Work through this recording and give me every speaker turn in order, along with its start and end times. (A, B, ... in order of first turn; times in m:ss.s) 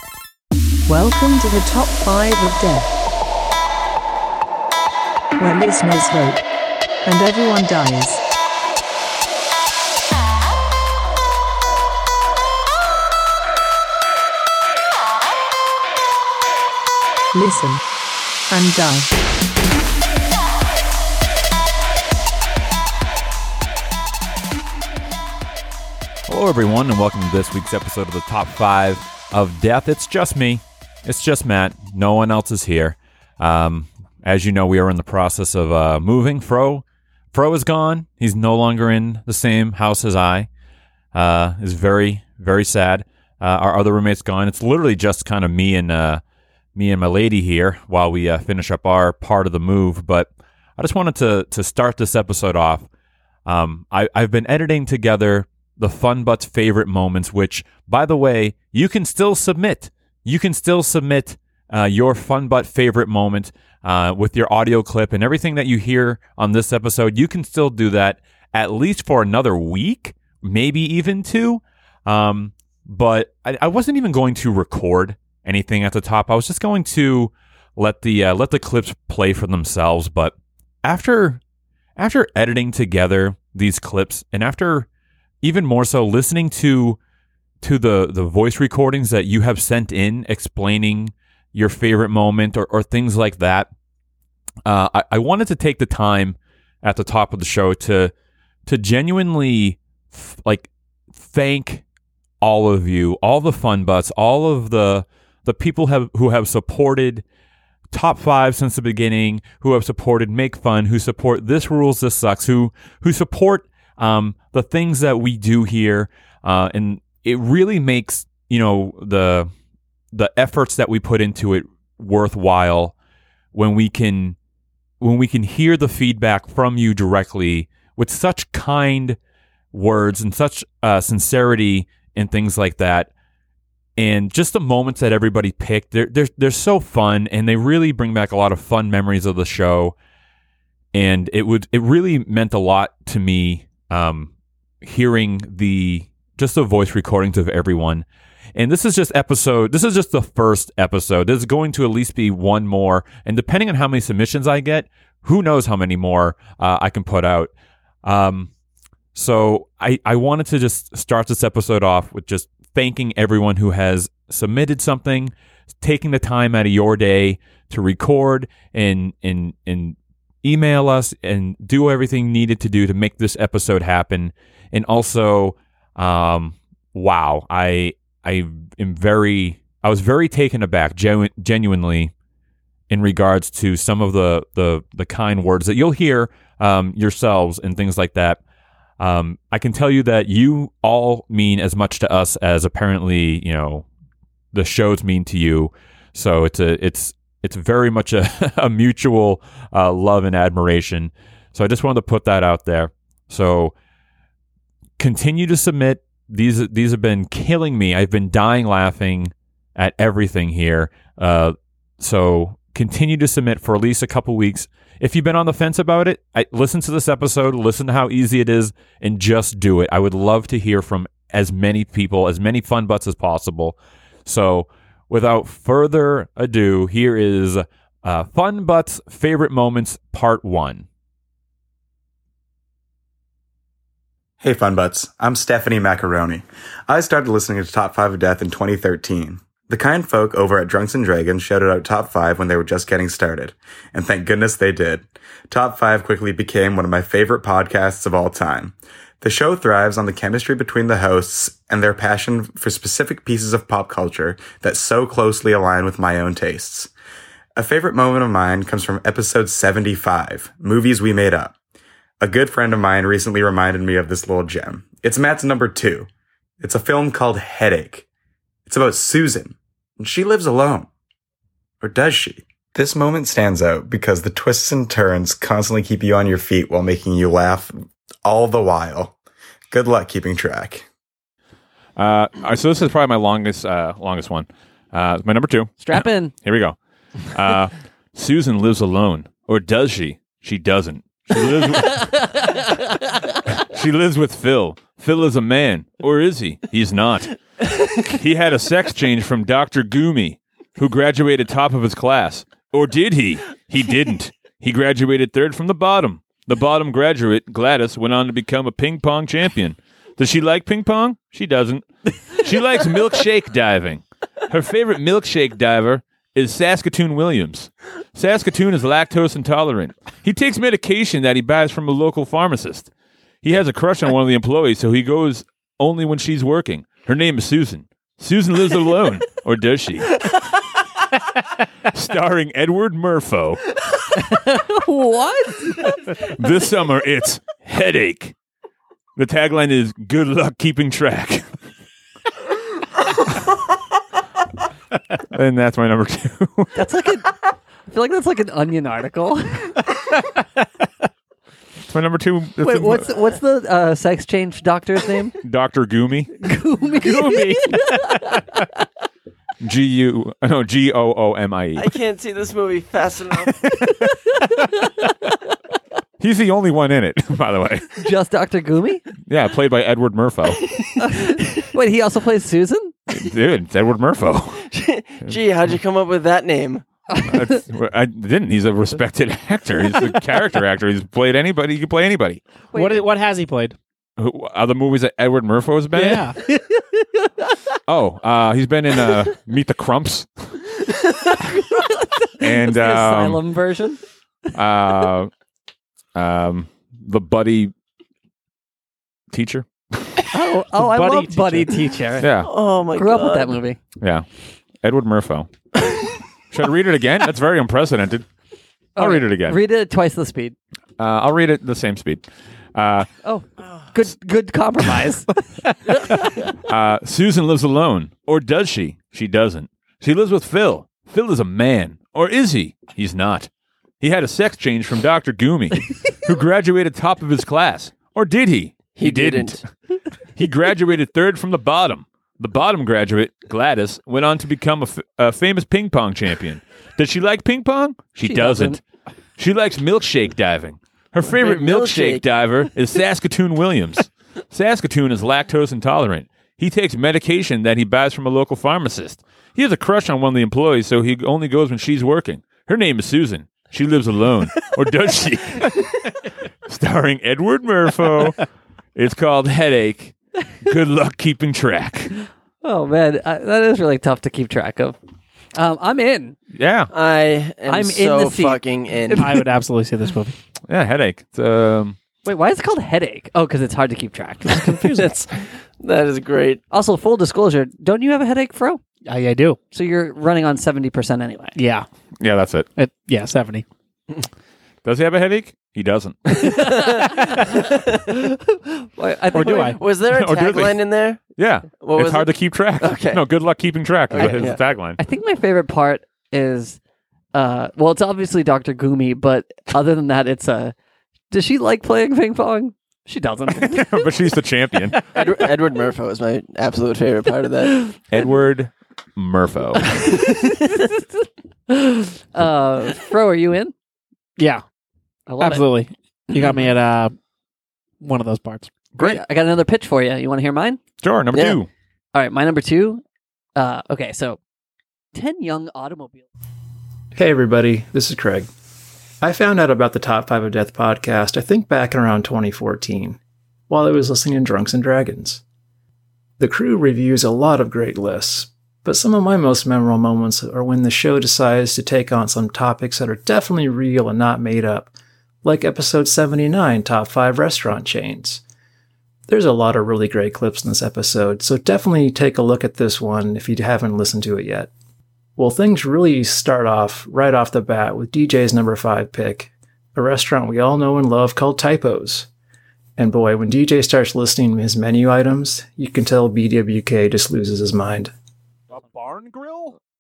0:00.9-0:02.9 A
0:05.4-0:06.4 A
0:07.0-0:08.2 A
0:17.3-0:17.8 A
0:18.5-0:19.1 A
0:26.3-0:40.5 B
0:41.1-0:46.2 B
0:46.8-0:52.9 B
0:53.5-1:21.4 B
1:22.0-1:24.9 B
1:25.4-1:27.0 B
1:27.6-1:33.7 B
1:34.6-1:38.1 B
1:38.7-1:41.8 B
1:42.4-1:47.2 B
1:47.9-1:59.5 B
2:00.1-2:03.0 B
2:03.5-2:04.4 B
2:05.0-2:09.2 B
2:09.7-2:13.1 B
2:14.0-2:20.0 B
2:20.9-2:24.3 B
2:24.8-2:37.5 B
2:38.0-2:38.5 B
2:39.2-3:02.1 B
3:02.9-3:08.4 B
3:09.0-3:13.8 B
3:14.5-3:23.7 B
3:25.0-3:50.8 B
3:54.4-4:16.9 C
4:17.6-4:21.6 C
4:22.2-4:26.1 C
4:26.6-4:28.1 C
4:28.7-4:30.9 C
4:31.8-4:39.2 C
4:39.7-4:40.9 C
4:42.0-4:46.8 B
4:45.8-4:46.3 D
4:47.3-4:52.6 B
4:53.6-4:57.4 B
4:57.9-5:22.9 B
5:23.4-5:30.3 B
5:31.9-5:33.6 B
5:34.2-5:36.0 D
5:36.1-5:38.3 B
5:39.2-5:41.5 B
5:45.3-5:46.7 B
5:46.8-5:47.4 D
5:47.9-5:49.8 D
5:51.9-5:53.1 B
5:52.6-5:55.4 D
5:55.4-5:56.4 B
5:56.4-5:58.4 D
5:59.6-6:01.9 B
6:01.8-6:03.9 E
6:03.6-6:04.2 B
6:06.2-6:07.9 B
6:08.0-6:09.0 D
6:09.3-6:10.7 B
6:11.0-6:12.9 D
6:13.1-6:14.6 B
6:14.6-6:16.8 E
6:17.1-6:17.4 D
6:17.2-6:22.4 B
6:22.7-6:23.1 D
6:22.7-6:23.8 F
6:24.2-6:26.3 B
6:25.9-6:26.4 F
6:26.5-6:26.8 D
6:27.9-6:30.5 B
6:32.3-6:34.0 D
6:32.4-6:33.4 B
6:34.5-6:35.3 B
6:36.2-6:37.7 B
6:39.3-6:40.1 B
6:40.3-6:42.3 D
6:40.7-6:42.0 F
6:42.2-6:42.5 B
6:42.4-6:43.6 E
6:43.0-6:43.8 D
6:44.0-6:44.2 B
6:44.8-6:45.5 B
6:46.5-6:48.2 B
6:49.0-6:50.6 D
6:49.0-6:49.6 B
6:51.0-6:53.1 B
6:53.2-6:56.4 D
6:56.6-7:03.5 B
7:04.0-7:09.6 B
7:09.0-7:09.6 E
7:10.4-7:18.8 B
7:18.2-7:18.8 D
7:19.4-7:36.1 B
7:21.2-7:22.2 E
7:36.7-7:38.4 B
7:39.0-7:42.1 B
7:42.6-7:45.0 D
7:45.6-7:46.4 D
7:46.5-7:46.9 B
7:46.9-7:49.4 E
7:47.7-7:49.3 D
7:49.2-7:50.4 F
7:50.7-7:52.0 B
7:52.2-7:54.6 D
7:54.5-7:55.1 F
7:54.9-7:56.6 E
7:56.7-7:58.8 D
7:59.0-7:59.6 F
7:59.7-8:01.6 D
8:01.6-8:01.9 F
8:02.2-8:02.7 B
8:02.8-8:03.6 F
8:04.8-8:06.9 B
8:06.4-8:07.1 E
8:06.4-8:09.8 D
8:09.3-8:09.8 F
8:09.4-8:11.2 E
8:10.1-8:10.8 B
8:11.4-8:15.0 B
8:11.8-8:13.3 E
8:14.1-8:14.6 E
8:15.0-8:16.8 D
8:17.3-8:20.7 D
8:21.3-8:24.0 D
8:23.6-8:25.1 B
8:25.1-8:27.9 E
8:28.1-8:30.0 B
8:30.1-8:31.0 D
8:31.7-8:33.7 D
8:34.4-8:34.6 F
8:35.3-8:35.6 D
8:35.4-8:37.1 F
8:38.0-8:38.7 F
8:39.0-8:40.8 D
8:41.0-8:41.7 B
8:41.3-8:41.6 E
8:42.1-8:43.0 D
8:43.6-8:44.4 D
8:45.1-8:46.2 D
8:47.1-8:48.5 G
8:49.2-8:55.4 G
8:56.4-9:04.9 G
9:05.4-9:08.4 G
9:09.3-9:14.7 G
9:15.4-9:22.3 G
9:23.0-9:28.1 G
9:28.7-9:29.8 B